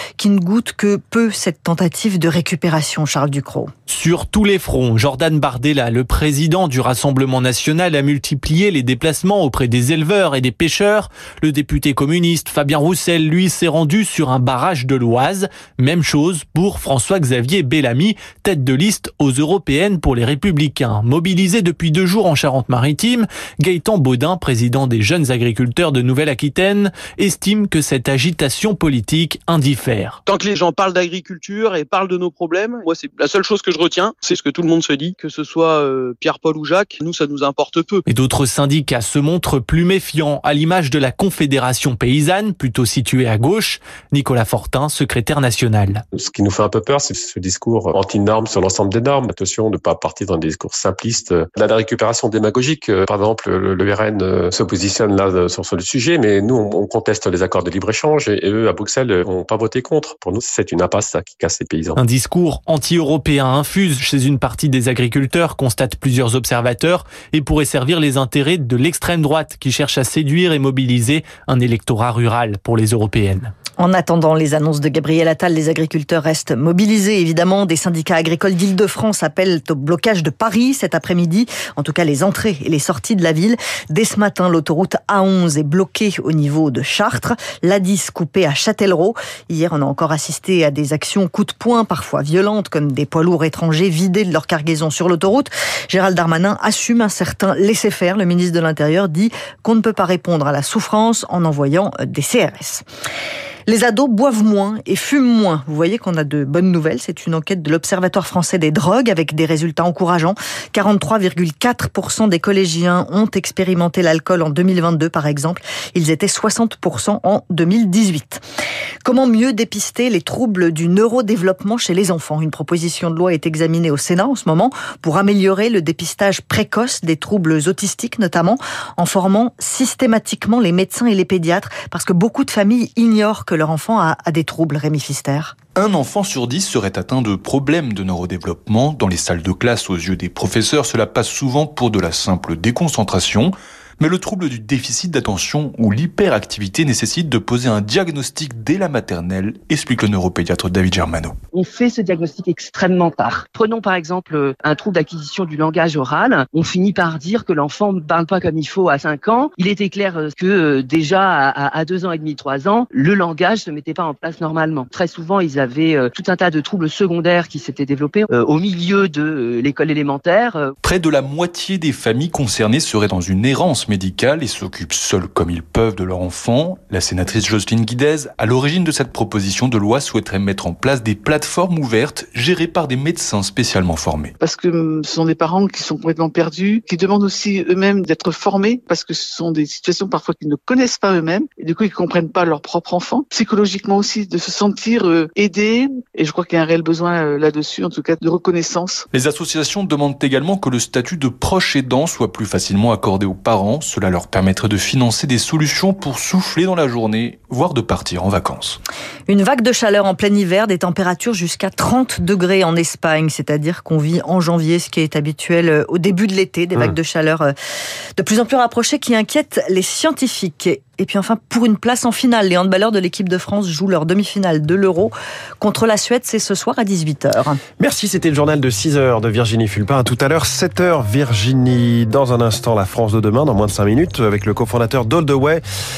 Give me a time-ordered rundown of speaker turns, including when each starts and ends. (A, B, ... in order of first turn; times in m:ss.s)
0:00.2-0:03.7 A
0:03.9-0:30.2 B
0:30.2-0:38.0 C
0:38.1-0:46.0 B
0:46.1-1:02.0 D
1:02.0-1:13.5 B
1:13.8-1:42.8 A
1:43.7-1:58.4 A
1:59.0-2:15.5 A
2:15.7-2:31.4 E
2:31.5-2:50.7 F
2:50.8-3:04.4 E
3:04.4-3:19.0 G
3:19.1-3:28.8 E
3:29.3-3:37.5 A
3:38.2-3:47.6 A
3:47.8-3:55.6 H